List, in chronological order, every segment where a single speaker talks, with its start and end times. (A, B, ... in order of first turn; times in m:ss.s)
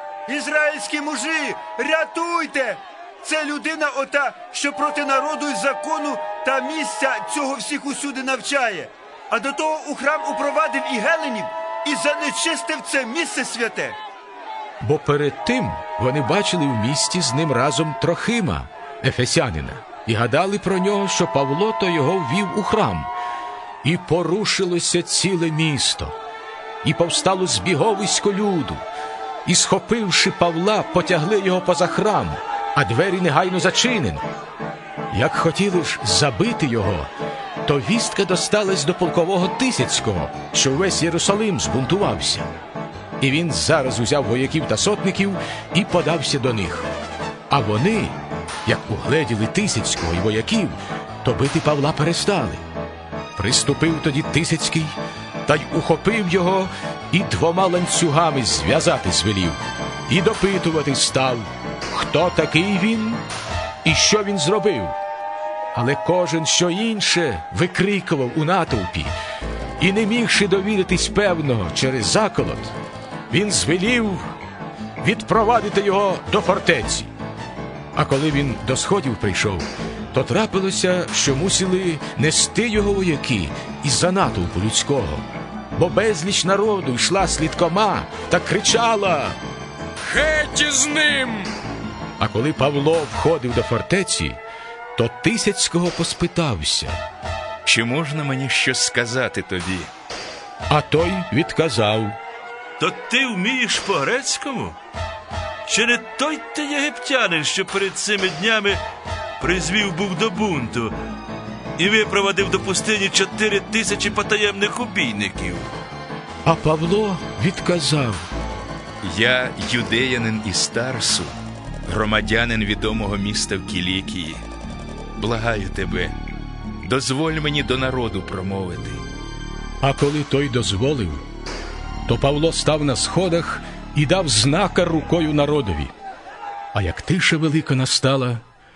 0:00.3-0:14.0 A
0:14.8-0:23.1 B
0:23.8-0:26.2 B
0:26.8-0:28.8 B
0:29.4-0:34.2 B
0:35.1-0:37.1 B
0:37.6-0:42.5 B
0:43.2-0:46.9 B
0:47.5-0:52.6 B
0:53.4-1:03.2 B
1:03.8-1:05.0 B
1:05.7-1:09.1 B
1:09.8-1:12.7 B
1:13.3-1:14.3 B
1:15.0-1:17.1 B
1:18.0-1:29.4 B
1:30.2-1:31.3 C
1:32.2-1:34.4 B
1:35.0-1:37.0 B
1:37.6-1:39.9 C
1:40.7-1:42.2 B
1:42.8-1:44.8 D
1:45.7-1:48.8 D
1:49.4-1:50.9 D
1:51.8-1:55.6 D
1:54.9-1:55.6 C
1:56.4-1:58.3 B
1:59.0-2:04.4 C
2:05.2-2:06.2 C
2:06.8-2:09.0 C
2:09.8-2:11.2 B
2:12.1-2:15.9 B
2:16.7-2:18.4 B